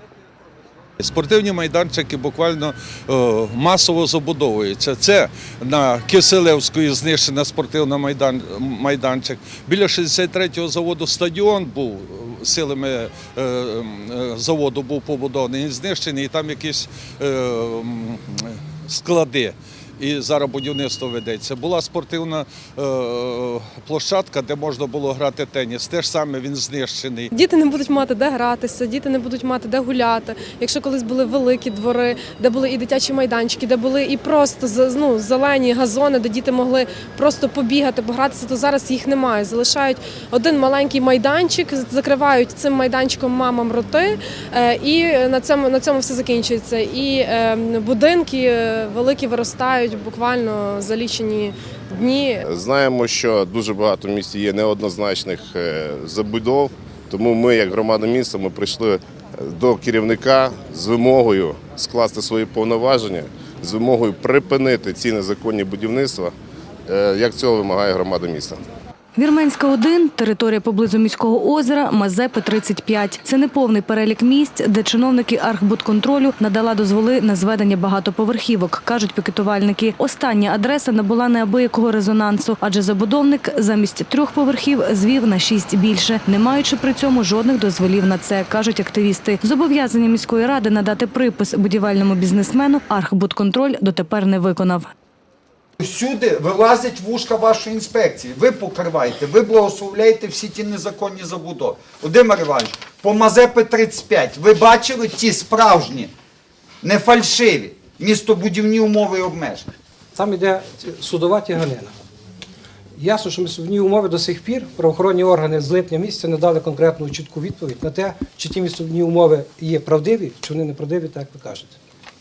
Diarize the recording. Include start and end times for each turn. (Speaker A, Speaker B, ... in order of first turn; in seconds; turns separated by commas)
Speaker A: 1.0-27.3, Speaker B: 27.3-52.4, Speaker C: 52.5-66.3, Speaker C: 66.9-68.6, Speaker D: 69.2-94.9, Speaker E: 95.8-106.1, Speaker E: 106.8-109.7, Speaker F: 110.2-111.9, Speaker F: 113.0-121.8